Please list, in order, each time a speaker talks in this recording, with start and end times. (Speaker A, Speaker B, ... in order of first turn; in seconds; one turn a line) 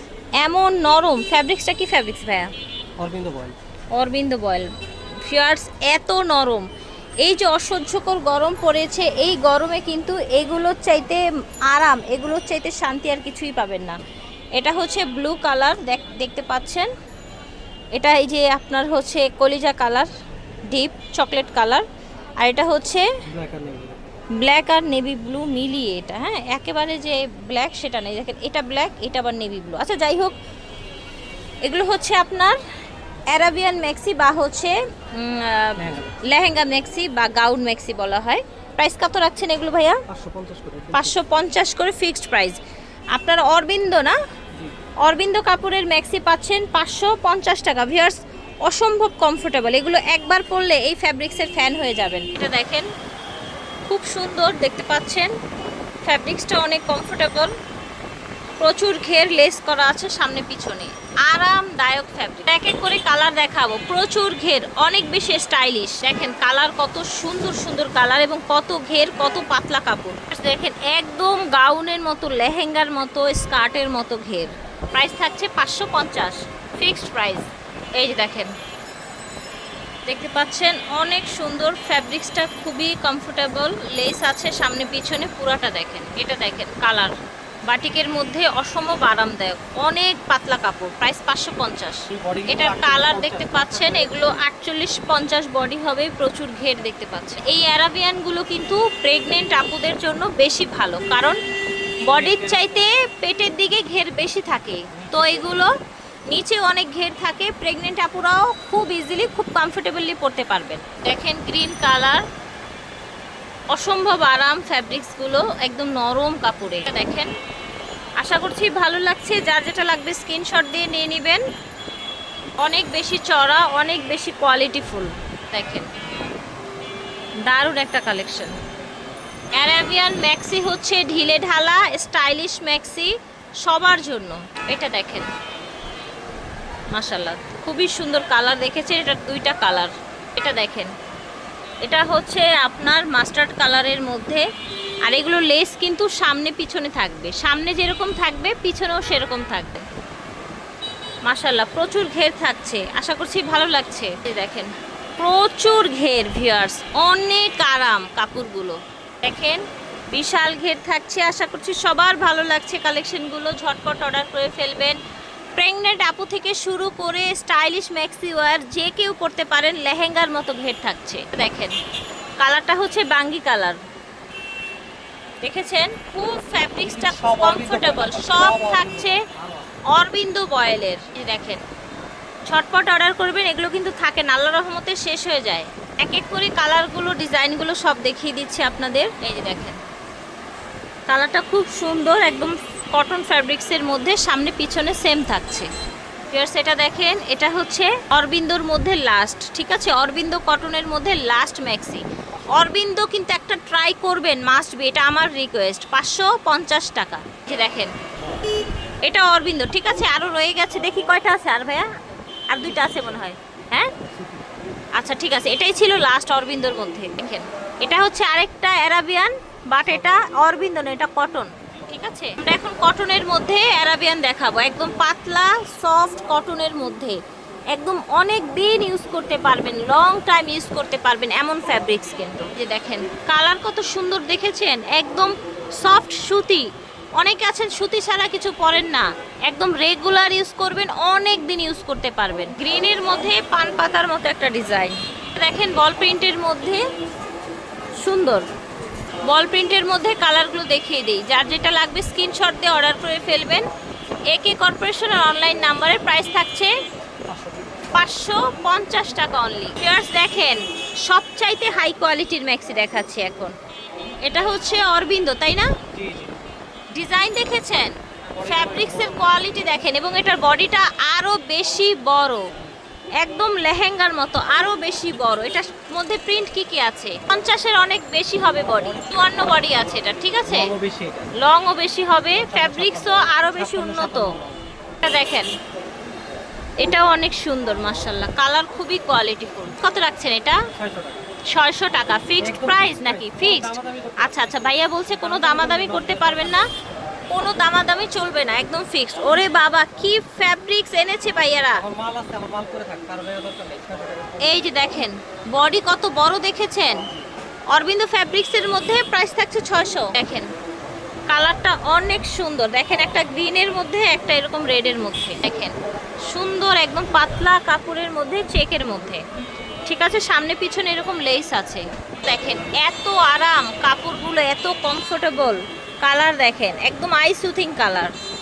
Speaker A: 0.4-2.5
Speaker B: 3.0-3.6
Speaker A: 3.9-4.7
Speaker A: 5.2-6.7
Speaker A: 7.2-14.0
Speaker A: 14.5-16.9
Speaker A: 17.9-20.1
Speaker A: 20.7-21.8
Speaker A: 22.4-23.1
Speaker B: 23.2-24.0
Speaker A: 24.4-30.3
Speaker A: 31.6-32.6
Speaker A: 33.3-40.0
Speaker B: 35.8-36.2
Speaker B: 40.1-41.2
Speaker A: 40.9-42.6
Speaker A: 43.1-44.2
Speaker A: 45.0-52.9
Speaker A: 53.9-55.3
Speaker A: 56.0-57.5
Speaker A: 58.6-78.5
Speaker A: 80.1-87.1
Speaker A: 87.7-101.3
Speaker B: 92.1-94.1
Speaker A: 102.0-105.7
Speaker B: 102.1-102.6
Speaker B: 104.9-105.3
Speaker A: 106.3-112.2
Speaker A: 113.7-117.3
Speaker A: 118.2-121.4
Speaker A: 122.6-125.9
Speaker A: 127.4-128.6
Speaker A: 129.6-135.3
Speaker A: 136.9-140.9
Speaker A: 141.8-144.4
Speaker A: 145.1-149.8
Speaker A: 151.2-165.0
Speaker A: 165.6-171.8
Speaker A: 172.4-173.8
Speaker A: 175.4-179.2
Speaker B: 176.8-179.7
Speaker A: 179.9-181.6
Speaker A: 182.5-189.8
Speaker A: 191.1-195.7
Speaker A: 196.3-207.9
Speaker A: 209.0-211.9
Speaker A: 212.5-213.9
Speaker A: 214.9-227.2
Speaker A: 227.7-246.8
Speaker A: 248.0-248.4
Speaker A: 249.2-253.7
Speaker A: 254.3-256.7
Speaker B: 257.3-258.0
Speaker A: 257.9-263.5
Speaker A: 264.2-265.7
Speaker B: 265.9-266.4
Speaker A: 266.9-272.5
Speaker B: 268.4-269.2
Speaker A: 273.2-280.7
Speaker B: 278.8-279.3
Speaker B: 280.4-281.3
Speaker A: 281.4-284.3
Speaker B: 282.3-284.6
Speaker A: 285.0-285.5
Speaker A: 286.8-290.6
Speaker B: 290.8-291.2
Speaker A: 291.5-296.7
Speaker B: 292.4-296.6
Speaker A: 297.3-301.8
Speaker B: 301.8-304.6
Speaker A: 304.4-307.0
Speaker A: 307.7-310.5
Speaker A: 311.3-315.7
Speaker A: 316.3-319.2
Speaker A: 319.9-328.1